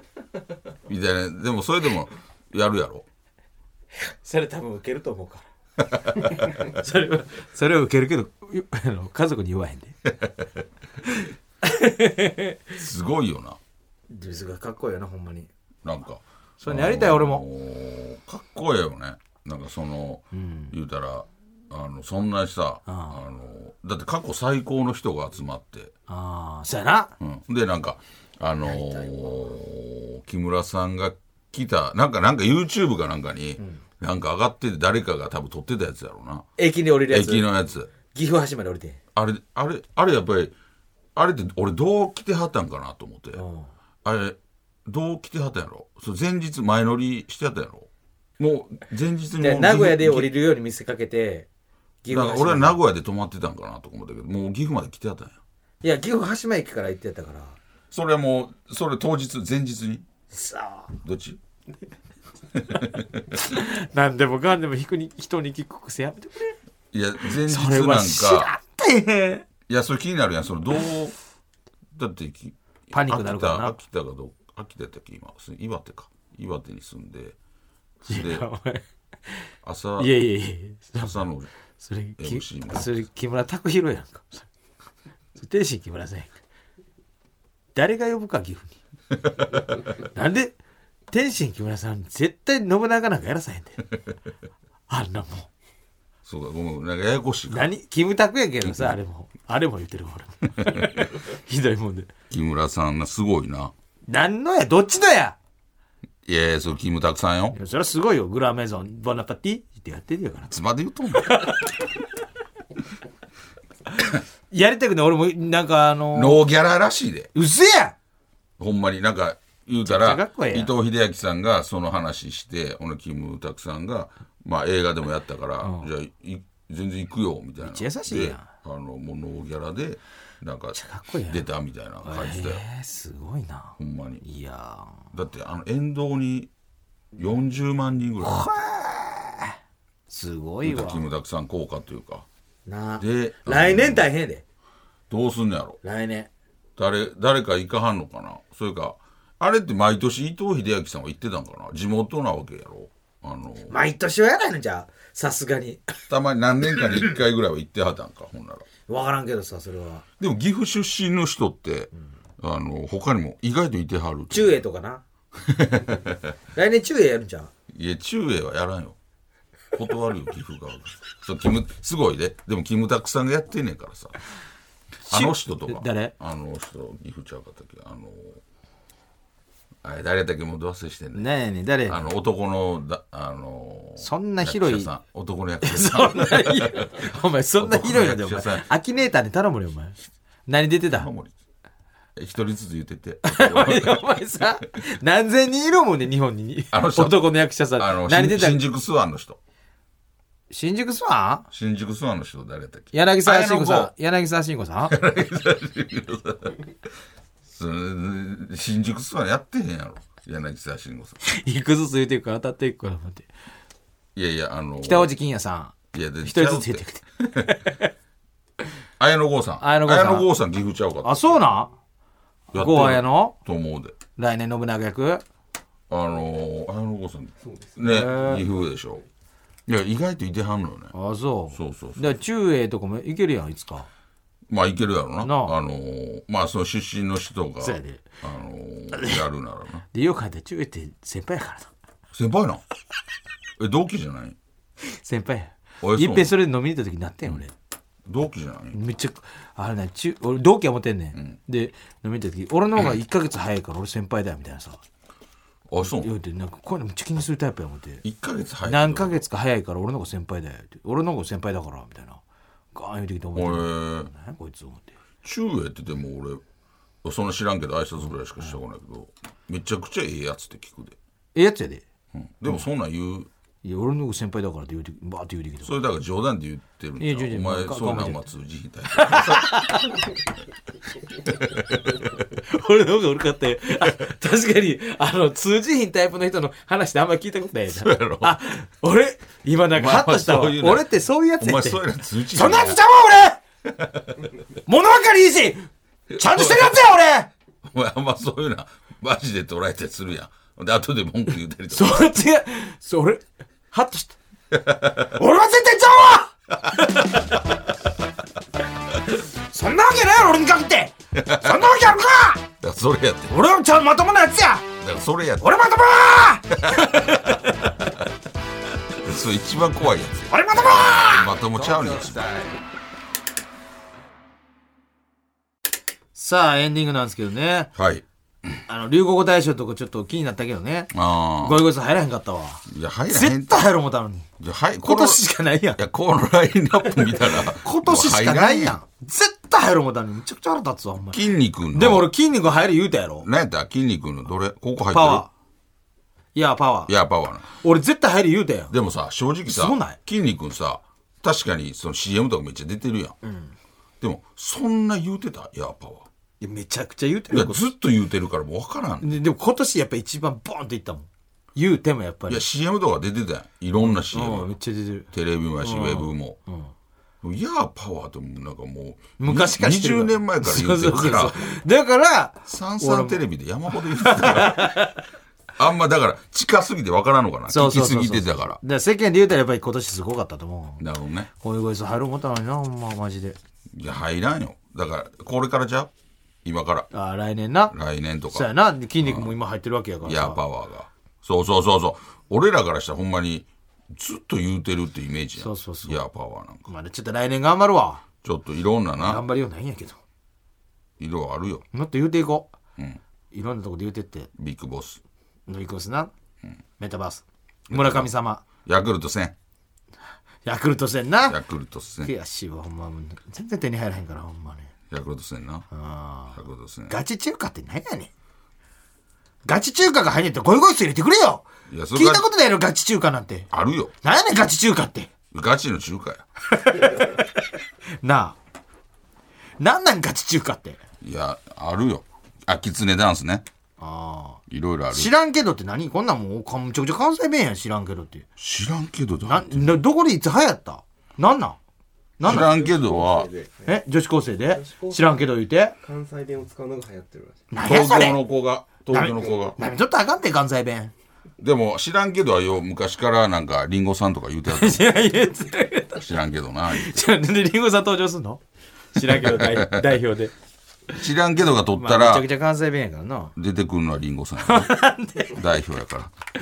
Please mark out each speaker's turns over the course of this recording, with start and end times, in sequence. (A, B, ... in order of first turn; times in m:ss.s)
0:00.9-0:03.1 A
0:04.1-0:05.4 B
0:06.0-0:06.3 A
0:06.1-0:10.0 B
0:11.1-0:12.6 B
0:12.8-0:13.6 A
0:14.1-0:15.5 B
0:15.8-0:25.9 A
0:16.6-0:17.4 B
0:20.3-0:20.7 B
0:22.9-0:23.2 B
0:26.1-0:27.2 B
0:27.2-0:36.4 A
0:28.7-0:29.1 B
0:36.6-0:37.5 B
0:37.1-0:37.9 A
0:38.1-0:39.0 B
0:39.2-0:40.5 A
0:41.2-0:43.4 A
0:43.4-0:43.7 B
0:44.0-0:47.9 A
0:48.4-0:50.3 A
0:49.4-0:51.5 B
0:52.0-0:52.8 B
0:52.1-0:55.4 A
0:55.8-0:57.6 B
0:57.9-1:00.1 A
1:00.3-1:00.9 B
1:01.0-1:01.4 A
1:02.5-1:03.2 A
1:03.3-1:06.6 B
1:06.9-1:08.5 A
1:07.2-1:09.4 B
1:09.7-1:11.2 A
1:11.9-1:17.4 A
1:12.9-1:13.8 B
1:18.1-1:18.5 A
1:18.1-1:19.4 B
1:19.6-1:20.2 A
1:20.0-1:21.3 B
1:21.0-1:21.5 A
1:21.8-1:24.5 B
1:22.2-1:22.9 A
1:25.4-1:26.4 B
1:27.8-1:28.8 B
1:29.8-1:30.6 B
1:31.1-1:33.9 B
1:34.9-1:35.5 B
1:36.2-1:37.7 A
1:37.5-1:42.1 B
1:38.6-1:39.0 A
1:40.6-1:40.9 A
1:42.3-1:43.7 A
1:44.1-1:45.4 B
1:46.3-1:47.6 A
1:47.5-1:50.6 B
1:50.5-1:51.4 A
1:51.1-1:51.8 B
1:54.5-1:56.4 B
1:56.1-1:57.3 A
1:57.3-1:58.0 B
1:58.6-2:12.6 A
1:59.8-2:00.7 B
2:05.6-2:05.9 B
2:07.6-2:08.5 B
2:10.7-2:11.4 B
2:12.0-2:15.1 B
2:13.8-2:14.2 A
2:15.1-2:16.5 A
2:17.2-2:18.4 A
2:18.2-2:19.5 B
2:20.1-2:21.1 B
2:20.6-2:22.3 A
2:22.7-2:24.4 B
2:23.0-2:24.1 A
2:25.1-2:25.8 A
2:25.8-2:26.3 B
2:26.8-2:33.8 A
2:33.7-2:36.1 B
2:36.1-2:38.7 A
2:38.9-2:40.0 B
2:40.2-2:44.5 A
2:44.3-2:45.0 B
2:45.4-2:46.3 A
2:46.6-2:47.5 B
2:47.7-2:49.0 A
2:49.7-2:54.2 A
2:55.1-2:56.1 B
2:55.1-2:58.4 A
2:59.8-3:01.3 A
3:01.2-3:02.0 B
3:01.9-3:08.7 A
3:04.0-3:04.9 B
3:05.6-3:11.1 B
3:10.9-3:11.3 A
3:12.2-3:14.1 A
3:13.2-3:18.6 B
3:16.7-3:19.4 A
3:20.5-3:21.5 B
3:21.5-3:23.9 A
3:22.9-3:25.0 B
3:24.9-3:26.7 A
3:27.5-3:31.2 A
3:31.2-3:33.3 B
3:34.2-3:35.1 A
3:34.8-3:37.9 B
3:35.9-3:37.5 A
3:39.0-3:41.3 A
3:39.6-3:40.3 B
3:41.0-3:41.7 B
3:42.5-3:43.4 B
3:42.5-3:44.0 A
3:44.2-3:45.2 B
3:45.9-3:49.0 A
3:47.8-3:48.5 B
3:49.7-3:50.9 A
3:50.9-3:53.9 B
3:51.5-3:52.1 A
3:54.5-3:59.8 A
3:55.2-3:55.6 B
3:57.6-3:58.1 B
3:58.9-3:59.2 B
3:59.9-4:01.7 B
4:02.1-4:02.6 A
4:03.6-4:04.4 A
4:04.9-4:07.5 B
4:05.8-4:06.4 A
4:08.1-4:08.8 A
4:08.7-4:14.8 B
4:15.7-4:16.1 A
4:15.8-4:18.0 B
4:18.0-4:19.2 A
4:18.6-4:22.2 B
4:22.7-4:25.0 B
4:23.4-4:24.1 A
4:25.2-4:26.4 A
4:27.0-4:31.0 A
4:31.4-4:31.8 B
4:32.1-4:33.3 A
4:33.6-4:35.7 B
4:35.6-4:39.8 A
4:37.0-4:38.2 B
4:39.0-4:40.0 B
4:41.3-4:42.2 A
4:42.4-4:53.4 B
4:47.7-4:48.4 A
4:49.7-4:52.8 A
4:53.7-4:54.3 A
4:54.7-4:57.3 B
4:56.1-4:56.8 A
4:57.6-5:02.1 A
5:01.7-5:04.2 B
5:04.5-5:05.2 A
5:05.1-5:07.2 B
5:09.5-5:12.4 B
5:11.1-5:11.8 A
5:12.6-5:13.3 A
5:13.3-5:14.7 B
5:14.8-5:15.6 A
5:15.4-5:17.7 B
5:16.6-5:17.4 A
5:19.0-5:22.6 A
5:20.3-5:22.5 B
5:26.2-5:27.7 B
5:27.8-5:28.0 A
5:28.7-5:34.3 B
5:30.9-5:31.6 A
5:32.7-5:33.7 A
5:34.4-5:35.2 A
5:34.8-5:35.8 B
5:35.8-5:38.8 A
5:37.3-5:43.3 B
5:41.1-5:42.1 A
5:43.2-5:45.2 A
5:44.9-5:45.3 B
5:46.4-5:46.9 B
5:46.9-5:47.5 A
5:47.5-5:48.7 B
5:48.7-5:53.2 A
5:49.5-5:50.0 B
5:53.2-5:53.5 B
5:54.0-5:56.1 A
5:56.4-5:57.7 B
5:57.3-5:59.2 A
5:59.0-6:02.4 B
6:02.3-6:04.5 A
6:03.8-6:06.7 B
6:05.1-6:06.4 A
6:07.2-6:11.5 A
6:09.2-6:15.0 B
6:12.5-6:14.8 A
6:15.6-6:18.6 A
6:17.5-6:20.8 B
6:20.8-6:21.3 A
6:21.4-6:23.4 B
6:23.7-6:25.9 A
6:26.4-6:26.9 A
6:26.9-6:27.7 B
6:27.7-6:29.3 A
6:28.3-6:30.4 B
6:30.0-6:36.7 A
6:35.4-6:36.0 B
6:36.7-6:38.0 B
6:38.2-6:39.2 A
6:39.0-6:40.0 B
6:41.0-6:41.6 A
6:41.7-6:42.5 B
6:43.3-6:44.3 B
6:44.4-6:45.0 A
6:45.5-6:46.1 B
6:46.8-6:48.4 B
6:47.7-6:48.1 A
6:48.6-6:49.4 A
6:50.4-6:51.4 B
6:51.3-6:52.1 A
6:52.0-6:54.7 B
6:54.9-6:55.7 A
6:55.7-6:58.1 B
6:56.4-6:57.0 A
6:59.4-7:03.5 B
7:01.7-7:02.3 A
7:03.5-7:03.9 A
7:04.0-7:05.1 B
7:05.3-7:06.2 A
7:06.5-7:07.3 B
7:08.0-7:08.4 B
7:09.6-7:10.8 B
7:11.0-7:13.4 A
7:13.8-7:18.3 B
7:14.5-7:15.1 A
7:18.4-7:19.8 A
7:19.2-7:21.6 B
7:22.2-7:22.5 B
7:22.2-7:23.3 A
7:22.3-7:23.8 C
7:23.7-7:25.8 B
7:24.5-7:27.5 C
7:27.5-7:28.2 B
7:27.6-7:29.6 A
7:28.9-7:30.9 B
7:31.4-7:34.9 A
7:34.5-7:36.2 B
7:36.0-7:37.0 A
7:36.7-7:38.4 B
7:38.9-7:40.3 B
7:39.2-7:39.8 A
7:40.9-7:42.3 A
7:41.7-7:43.3 B
7:43.4-7:44.8 A
7:44.4-7:45.4 B
7:45.3-7:46.1 A